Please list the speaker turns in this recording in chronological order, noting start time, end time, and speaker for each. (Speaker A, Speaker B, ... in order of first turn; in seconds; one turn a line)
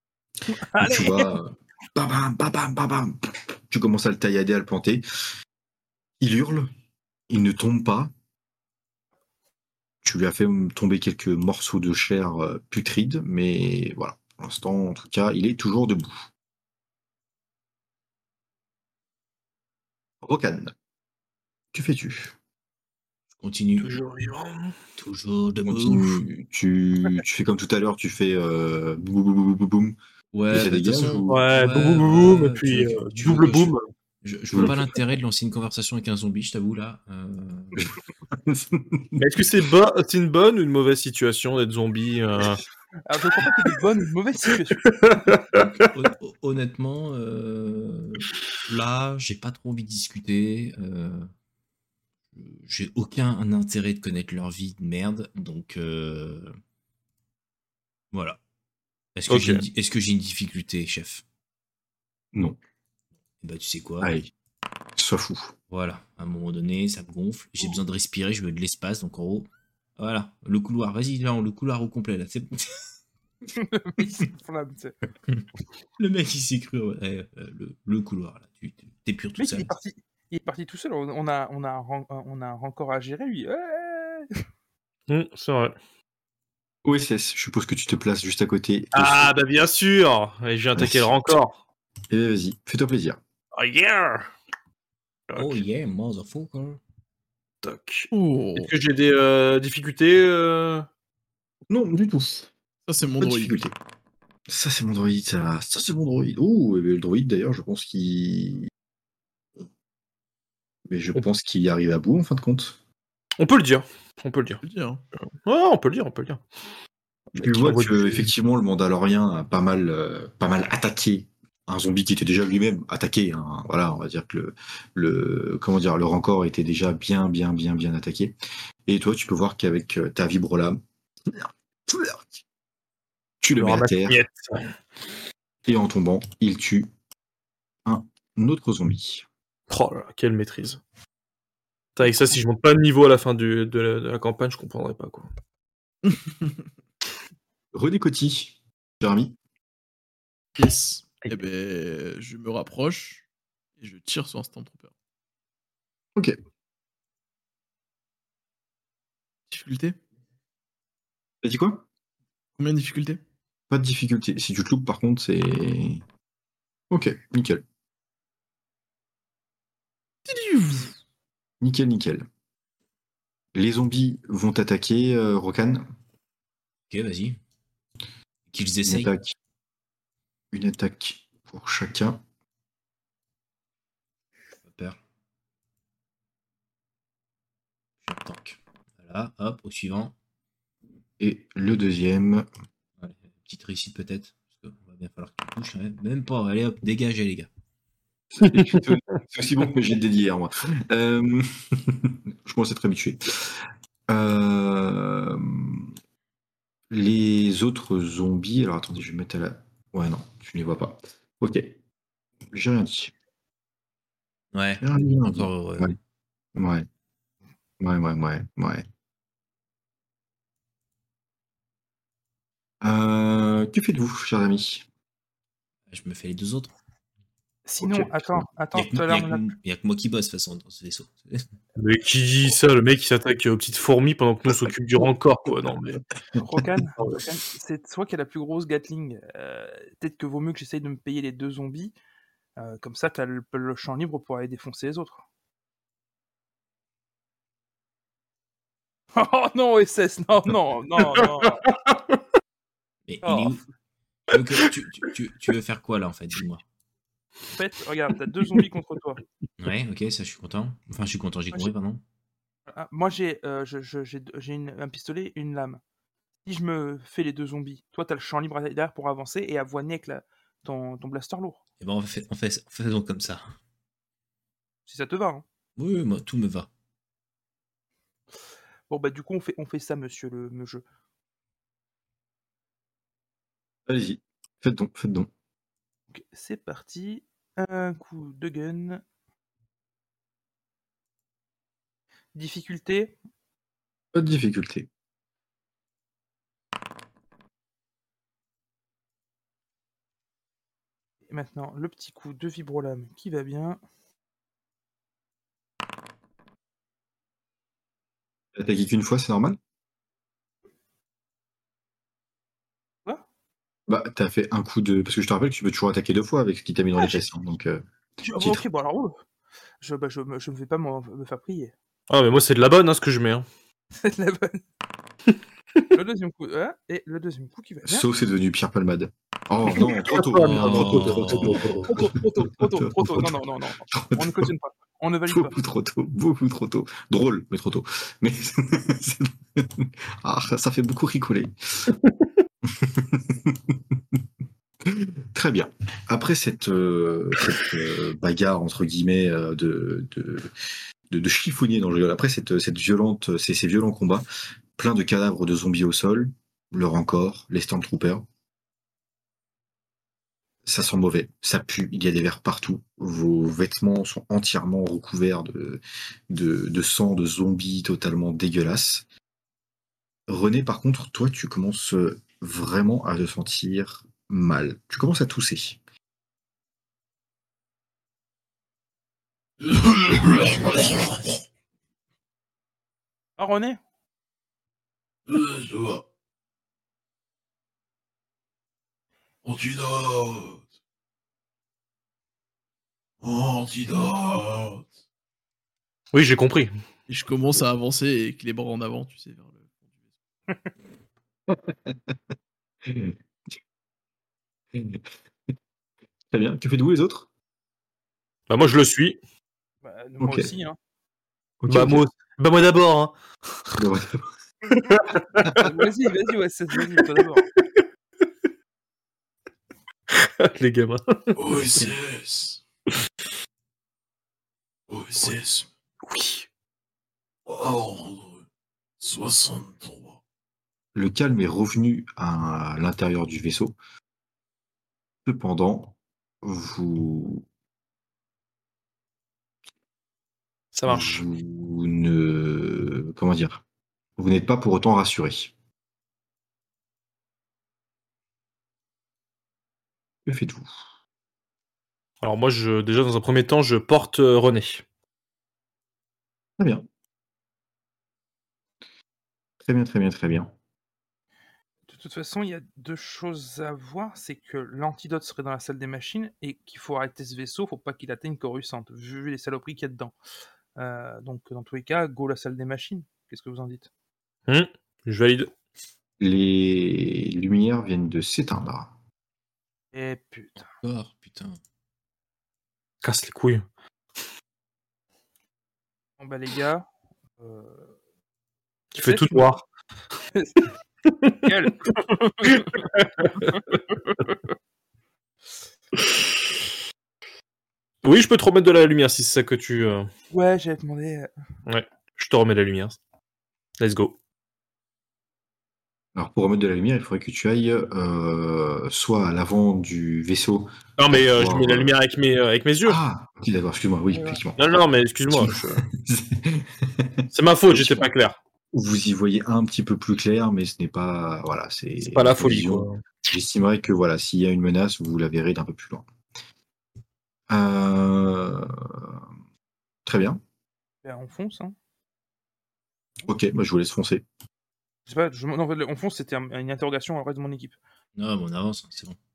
Speaker A: 0.5-1.3
Speaker B: 0.8-5.0
Speaker B: 6.2-6.7
Speaker B: 7.3-8.1
Speaker B: 10.0-16.3
Speaker B: 20.2-20.7
Speaker B: 21.7-22.4
Speaker C: 23.4-24.0
Speaker D: 23.8-24.8
Speaker C: 25.0-26.2
Speaker B: 25.6-30.0
Speaker C: 30.3-37.9
Speaker B: 30.5-31.5
Speaker D: 31.3-33.9
Speaker B: 37.8-39.4
Speaker D: 39.2-42.6
Speaker A: 43.1-45.0
Speaker D: 44.8-45.9
Speaker C: 45.5-51.3
Speaker C: 52.4-56.5
Speaker C: 58.1-58.4
Speaker C: 59.2-61.2
Speaker D: 59.3-59.6
Speaker C: 63.4-64.1
Speaker B: 64.0-64.3
Speaker B: 65.0-65.5
Speaker C: 65.7-72.8
Speaker A: 73.6-75.0
Speaker C: 76.0-79.7
Speaker A: 79.4-84.3
Speaker D: 85.1-85.8
Speaker B: 86.8-89.4
Speaker D: 88.9-91.6
Speaker B: 90.8-91.2
Speaker B: 92.1-93.2
Speaker D: 93.5-94.3
Speaker D: 95.3-95.6
Speaker C: 95.4-96.8
Speaker D: 97.6-100.9
Speaker E: 98.1-98.7
Speaker B: 101.7-102.5
Speaker E: 102.9-103.6
Speaker B: 103.2-103.8
Speaker B: 104.5-108.7
Speaker B: 110.9-112.8
Speaker D: 113.4-114.6
Speaker E: 114.6-115.0
Speaker D: 115.5-116.4
Speaker B: 117.3-128.3
Speaker D: 117.4-118.3
Speaker B: 128.9-132.4
Speaker B: 133.4-134.2
Speaker D: 133.6-134.7
Speaker B: 135.7-136.9
Speaker B: 137.8-139.3
Speaker D: 139.7-140.8
Speaker D: 142.0-145.3
Speaker B: 147.7-149.4
Speaker E: 150.6-153.2
Speaker E: 153.8-154.9
Speaker E: 159.5-160.0
Speaker B: 161.4-161.8
Speaker E: 162.6-163.2
Speaker B: 163.7-166.0
Speaker B: 166.9-167.6
Speaker E: 170.3-170.9
Speaker B: 171.6-172.3
Speaker B: 173.5-175.9
Speaker C: 176.9-177.4
Speaker C: 178.5-179.1
Speaker B: 178.8-179.3
Speaker B: 180.5-182.2
Speaker C: 184.7-185.0
Speaker C: 188.0-190.1
Speaker B: 191.2-192.5
Speaker C: 193.0-197.5
Speaker B: 198.4-205.9
Speaker D: 198.4-198.8
Speaker B: 206.9-211.8
Speaker B: 212.5-213.1
Speaker C: 214.5-215.9
Speaker B: 214.8-216.0
Speaker B: 216.6-216.9
Speaker B: 217.8-218.9
Speaker B: 222.8-224.9
Speaker C: 225.9-226.7
Speaker A: 227.7-229.5
Speaker B: 227.8-228.4
Speaker C: 228.7-231.4
Speaker D: 231.8-236.1
Speaker A: 236.4-241.9
Speaker A: 242.6-245.2
Speaker A: 249.2-251.6
Speaker D: 251.5-251.9
Speaker C: 253.1-253.6
Speaker A: 253.2-253.6
Speaker C: 254.3-256.6
Speaker A: 257.5-259.2
Speaker C: 259.6-262.0
Speaker A: 262.7-265.8
Speaker A: 266.4-271.6
Speaker C: 271.8-273.4
Speaker A: 274.9-275.4
Speaker C: 275.8-276.7
Speaker A: 278.9-280.8
Speaker B: 283.9-285.3
Speaker A: 286.1-289.0
Speaker A: 292.4-293.2
Speaker B: 294.1-294.9
Speaker A: 301.3-303.8
Speaker B: 308.6-309.6
Speaker B: 313.9-318.6
Speaker A: 318.2-319.2
Speaker A: 319.8-321.7
Speaker D: 322.1-323.5
Speaker A: 324.0-324.6
Speaker A: 325.9-328.1
Speaker B: 327.9-334.5
Speaker D: 329.7-331.9
Speaker C: 330.4-331.9
Speaker A: 331.9-335.6
Speaker B: 335.3-341.9
Speaker B: 342.7-343.8
Speaker B: 344.9-350.5
Speaker B: 351.1-354.2
Speaker B: 354.8-358.2
Speaker B: 360.7-369.1
Speaker B: 370.3-375.8
Speaker F: 379.6-381.4
Speaker A: 383.4-383.8
Speaker F: 385.3-386.1
Speaker F: 389.4-390.7
Speaker F: 393.2-394.9
Speaker D: 396.1-396.7
Speaker E: 397.1-399.7
Speaker B: 401.5-402.1
Speaker B: 402.9-403.1
Speaker B: 404.8-405.0
Speaker B: 406.3-407.3
Speaker D: 408.5-409.2
Speaker A: 409.8-410.8
Speaker B: 410.2-410.5
Speaker B: 411.6-412.1
Speaker D: 411.7-413.1
Speaker B: 413.8-414.3
Speaker D: 414.7-415.7
Speaker A: 415.6-417.5
Speaker D: 417.5-417.8
Speaker D: 420.1-421.4
Speaker F: 421.4-422.6
Speaker F: 424.9-425.7
Speaker D: 426.0-426.5
Speaker F: 427.5-428.4
Speaker F: 429.0-430.2
Speaker B: 430.9-433.8
Speaker B: 435.2-437.4
Speaker D: 440.7-441.2
Speaker B: 440.9-443.6
Speaker B: 444.2-445.5
Speaker B: 450.3-450.7
Speaker D: 452.2-454.9
Speaker B: 456.6-456.9
Speaker B: 459.6-460.5
Speaker A: 461.9-470.1
Speaker A: 470.8-473.9
Speaker D: 474.5-475.5
Speaker B: 476.2-478.9
Speaker A: 479.9-480.6
Speaker C: 480.6-481.6
Speaker D: 483.0-483.7
Speaker A: 486.2-486.9
Speaker A: 487.4-487.9
Speaker D: 488.9-489.6
Speaker A: 489.0-489.5
Speaker A: 490.3-490.7
Speaker D: 491.1-491.5
Speaker A: 491.4-492.7
Speaker D: 492.4-493.5
Speaker D: 498.0-500.1
Speaker A: 500.3-501.3
Speaker D: 501.7-503.0
Speaker D: 503.8-504.1
Speaker B: 506.1-512.0
Speaker D: 511.0-513.0
Speaker B: 512.9-514.8
Speaker A: 514.1-514.4
Speaker D: 514.6-515.9
Speaker B: 515.3-518.1
Speaker D: 517.3-518.4
Speaker B: 518.7-526.0
Speaker D: 522.0-523.0
Speaker B: 527.5-529.1
Speaker B: 530.1-530.4
Speaker A: 531.0-531.8
Speaker B: 533.3-534.2
Speaker A: 535.1-537.8
Speaker C: 538.2-539.2